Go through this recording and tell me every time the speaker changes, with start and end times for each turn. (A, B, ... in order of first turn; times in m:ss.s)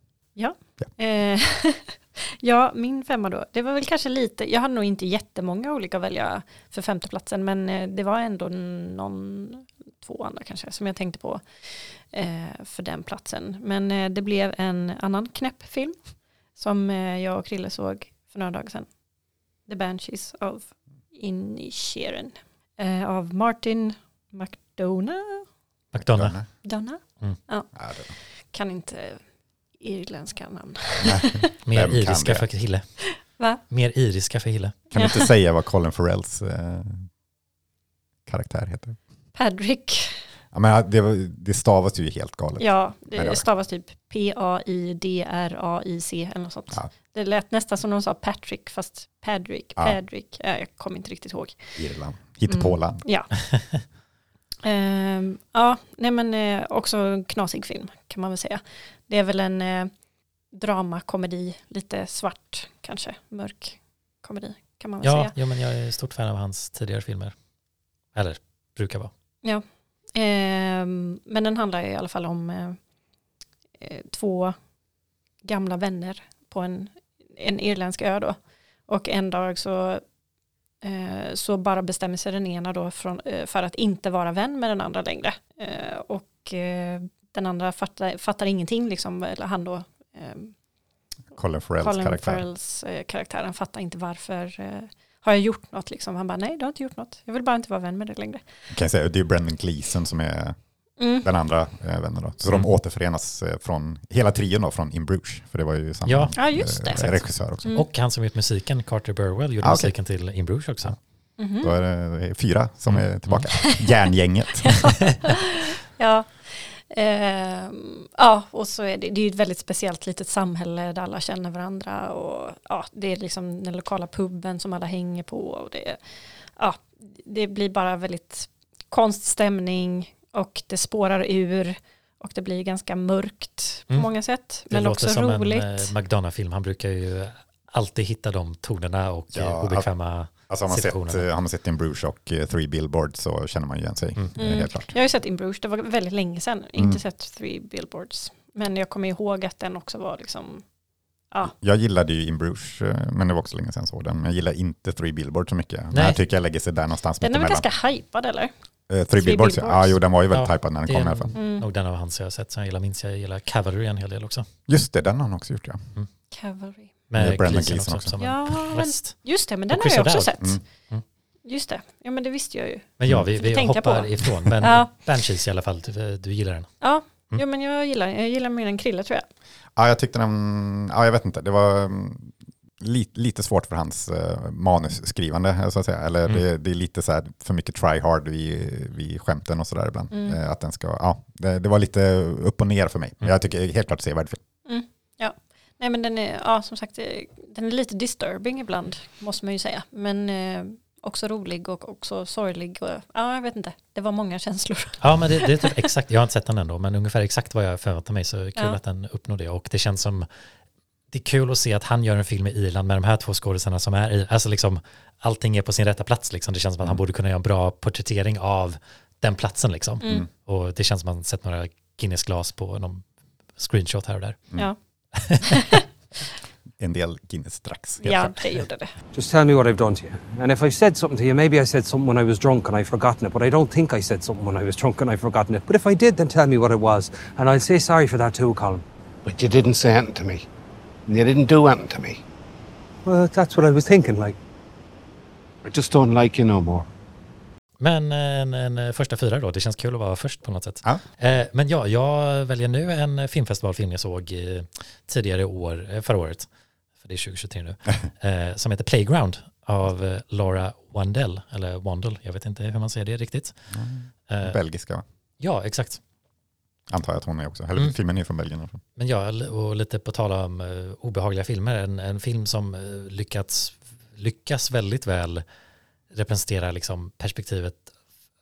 0:00.4-0:16.0 A
0:16.6-0:18.9 A
0:19.7-0:25.4 A
0:25.9-0:26.4 B
0:25.9-0:26.5 C
0:26.6-0:27.7 A
0:27.7-0:28.1 C
0:28.5-0:29.2 A
0:29.8-0:31.4 A
0:31.0-0:32.5 C
0:31.6-0:33.0 B
0:33.3-0:33.6 A
0:33.7-0:34.8 B
0:34.9-0:37.1 C
0:34.9-0:35.3 A
0:38.2-0:39.0 C
0:39.3-0:40.2 A
0:40.5-0:43.4 C
0:42.6-0:51.8 A
0:51.8-0:53.0 C
0:52.5-0:53.3 A
0:53.5-0:53.8 B
0:54.6-0:59.9 A
1:00.5-1:05.3 A
1:05.0-1:07.3 B
1:08.1-1:09.1 B
1:09.4-1:12.8 A
1:13.8-1:14.6 A
1:15.4-1:18.4 A
1:18.9-1:20.0 A
1:20.8-1:30.5 A
1:31.3-1:32.4 C
1:31.8-1:38.4 A
1:38.7-1:40.6 C
1:41.0-1:41.2 A
1:41.2-1:47.7 C
1:46.0-1:50.9 B
1:46.4-1:47.1 A
1:47.6-1:47.9 A
1:49.6-1:49.9 C
1:51.4-1:51.8 A
1:51.6-1:54.9 C
1:52.9-1:53.5 B
1:53.6-1:54.1 A
1:54.8-2:15.9 A
2:14.7-2:21.2 B
2:19.3-2:24.9 C
2:24.4-2:30.6 A
2:31.4-2:37.7 C
2:35.9-2:36.2 B
2:37.2-2:38.5 A
2:38.9-2:41.3 C
2:39.2-2:39.9 A
2:40.3-2:44.5 B
2:41.4-2:41.7 A
2:44.7-2:45.9 C
2:46.3-2:46.9 A
2:47.1-2:50.3 B
2:47.1-2:48.5 C
2:48.2-2:50.6 A
2:51.4-2:54.9 A
2:53.0-2:56.7 B
2:56.8-2:59.3 A
2:59.8-3:14.4 C
3:10.1-3:10.4 A
3:14.6-3:25.7 A
3:25.0-3:30.3 B
3:31.1-3:44.4 B
3:40.0-3:40.3 A
3:45.2-3:45.6 B
3:45.5-3:45.8 A
3:46.8-3:48.3 C
3:48.0-3:48.9 A
3:49.1-3:58.8 D
3:59.2-4:00.4 E
4:01.1-4:02.2 E
4:03.0-4:04.4 D
4:05.6-4:06.9 E
4:07.8-4:16.5 B
4:17.0-4:23.6 B
4:23.7-4:25.0 C
4:24.3-4:24.6 B
4:25.4-4:26.0 B
4:26.9-4:28.8 C
4:29.0-4:35.4 B
4:36.1-4:37.9 B